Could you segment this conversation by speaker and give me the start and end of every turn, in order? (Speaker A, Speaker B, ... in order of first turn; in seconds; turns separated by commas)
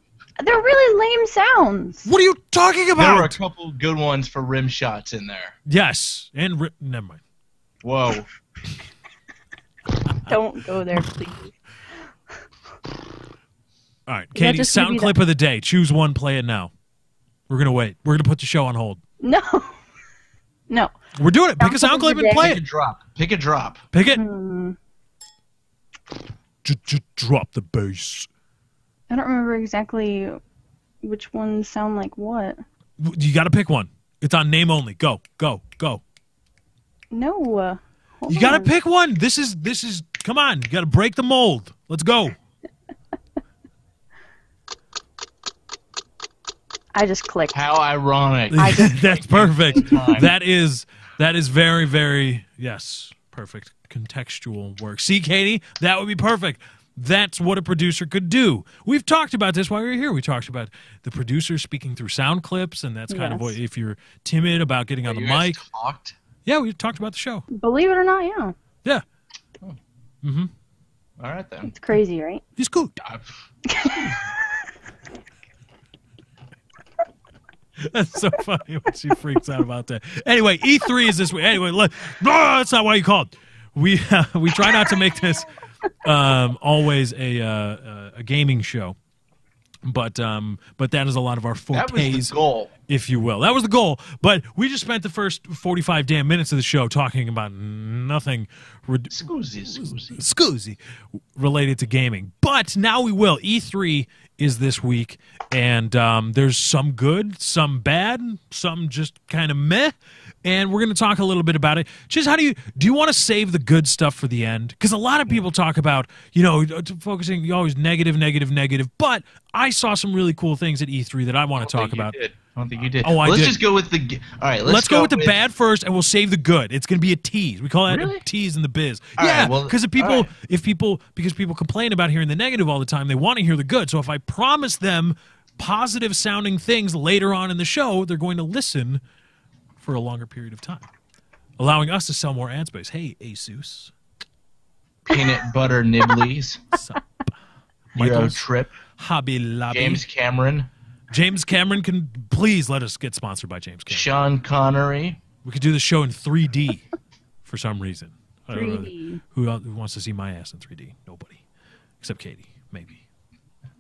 Speaker A: 0.4-2.1, Speaker B: 2.0-3.4, Speaker C: 3.0-5.5, Speaker B: 5.7-7.2, Speaker C: 7.8-8.3, Speaker B: 10.1-10.4, Speaker A: 10.2-11.6, Speaker B: 14.1-16.7, Speaker A: 14.3-15.2, Speaker B: 17.5-19.0, Speaker A: 19.2-19.8, Speaker B: 21.1-22.6, Speaker A: 21.6-22.5, Speaker C: 22.4-23.8, Speaker B: 23.9-24.2, Speaker A: 24.1-24.8, Speaker B: 26.6-28.3, Speaker A: 29.1-30.4, Speaker A: 31.0-32.6, Speaker B: 33.0-36.0, Speaker A: 37.1-38.7, Speaker B: 38.3-42.4, Speaker A: 46.9-47.6, Speaker C: 47.5-50.3, Speaker B: 48.5-65.6, Speaker A: 48.6-49.0, Speaker A: 63.1-63.5, Speaker C: 65.1-66.2, Speaker B: 66.5-67.5, Speaker A: 67.5-68.5, Speaker B: 70.2-70.5, Speaker C: 71.2-71.7, Speaker A: 71.7-72.4, Speaker B: 72.6-73.0, Speaker C: 73.0-73.3, Speaker A: 73.7-74.2, Speaker B: 77.8-85.5, Speaker B: 86.0-89.0, Speaker B: 89.8-92.3, Speaker C: 91.7-92.7, Speaker B: 92.9-122.2, Speaker C: 99.1-100.2, Speaker C: 121.6-125.4, Speaker B: 123.0-123.6, Speaker B: 124.7-139.0, Speaker C: 127.9-128.2, Speaker C: 129.2-130.3, Speaker B: 139.8-140.9, Speaker B: 141.6-143.9, Speaker C: 145.1-146.8, Speaker B: 146.8-147.3, Speaker B: 147.9-148.4, Speaker C: 147.9-148.8, Speaker B: 149.0-150.0, Speaker C: 149.7-150.7, Speaker B: 151.1-154.1, Speaker C: 153.9-155.2, Speaker B: 155.4-156.9, Speaker B: 157.4-161.4, Speaker A: 158.5-159.2, Speaker B: 162.0-163.0